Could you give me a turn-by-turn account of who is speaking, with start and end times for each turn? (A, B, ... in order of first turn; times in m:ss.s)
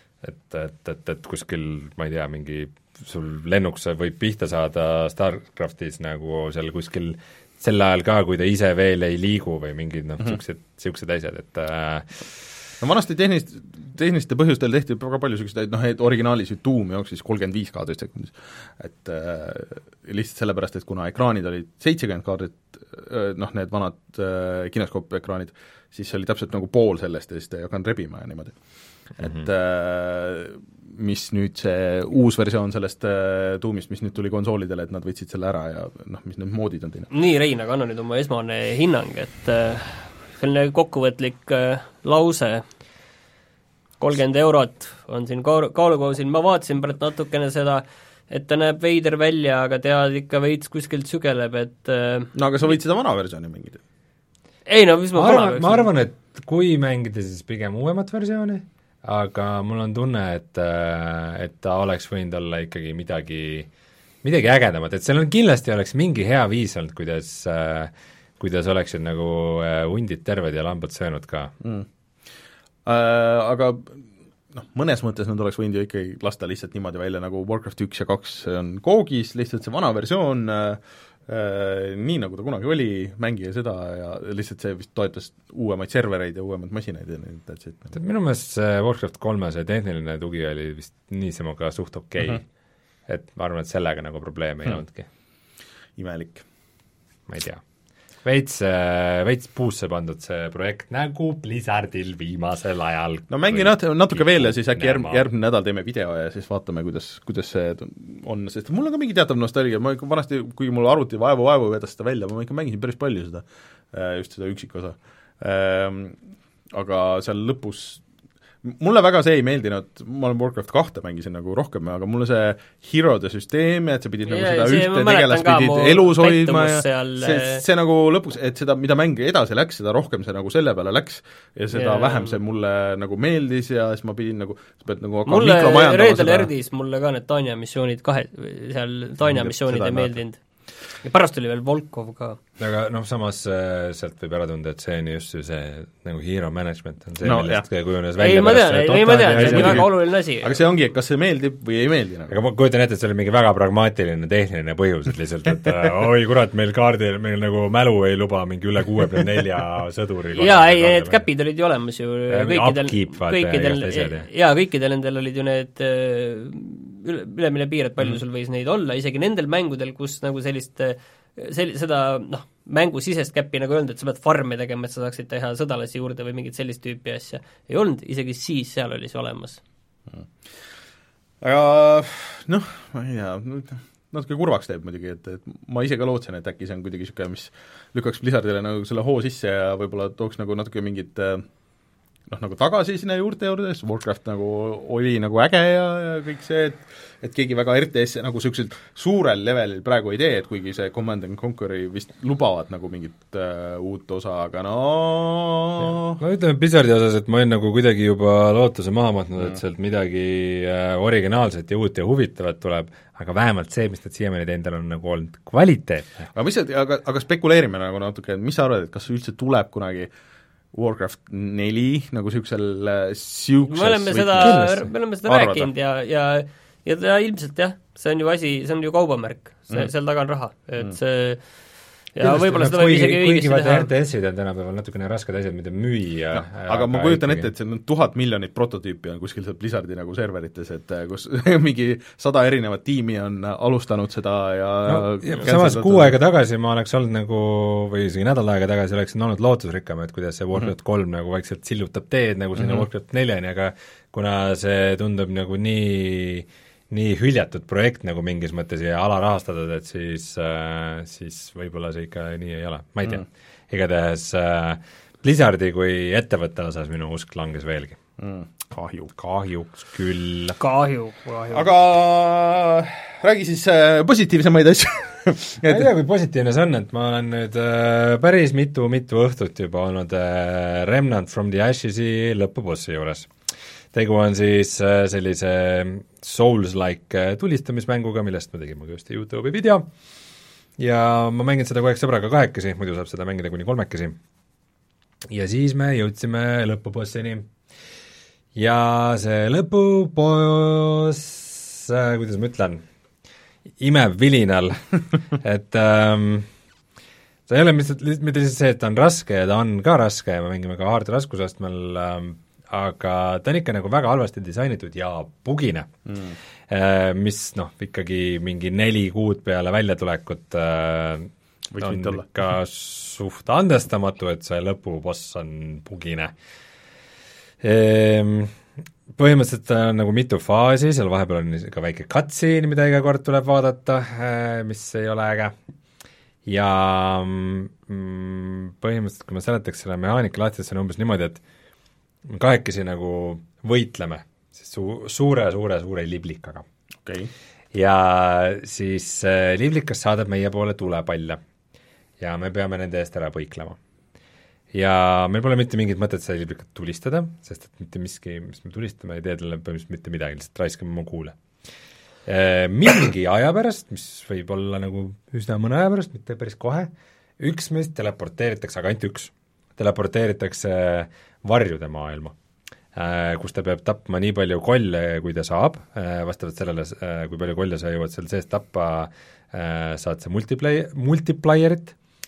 0:00.2-0:12.1 A
0:12.8-0:28.6 B
0:29.2-0:37.1 B
0:37.1-0:42.6 C
0:44.0-0:52.3 C
0:52.3-0:53.8 B
0:54.7-0:55.9 C
0:55.2-1:03.7 A
1:04.2-1:11.5 A
1:11.6-1:11.9 B
1:12.9-1:27.9 B
1:27.9-1:32.4 A
1:33.1-1:35.1 A
1:36.0-1:36.4 B
1:37.3-1:37.6 A
1:38.2-1:45.2 A
1:43.3-1:56.2 B
1:56.7-1:58.0 B
1:58.6-2:16.5 B
2:04.3-2:07.6 C
2:11.7-2:12.4 C
2:15.3-2:20.4 C
2:19.2-2:20.2 B
2:21.0-2:22.4 C
2:22.6-2:29.9 A
2:27.2-2:27.6 B
2:28.2-2:30.5 C
2:29.3-2:32.3 B
2:32.3-2:41.2 A
2:40.4-2:59.6 C
2:42.3-2:44.3 A
3:01.4-3:11.5 B
3:12.3-3:26.2 B
3:26.2-3:36.3 A
3:36.4-3:40.1 B
3:40.7-3:44.7 B
3:43.7-3:51.4 C
3:44.4-3:44.9 A
3:45.3-3:45.7 B
3:52.2-3:53.9 C
3:52.2-3:57.5 A
3:56.3-4:06.1 B
4:04.9-4:28.0 A
4:12.6-4:12.9 B
4:28.2-4:29.1 B
4:29.1-4:30.6 A
4:30.6-4:31.6 C
4:31.5-4:35.9 B
4:35.6-4:43.3 A
4:43.9-4:49.9 A
4:50.8-4:54.2 A
4:55.3-4:57.5 A
4:58.6-5:02.8 A
5:03.8-5:06.5 A
5:07.5-5:15.9 A
5:16.1-5:16.4 B
5:16.7-5:26.3 A
5:21.7-5:22.3 B
5:27.6-5:28.5 A
5:29.2-5:35.6 A
5:36.5-5:41.4 A
5:42.3-5:46.6 A
5:47.0-5:47.3 B
5:47.7-5:51.4 A
5:52.2-5:53.8 A
5:54.7-6:01.4 A
6:02.3-6:12.4 A
6:13.0-6:22.0 A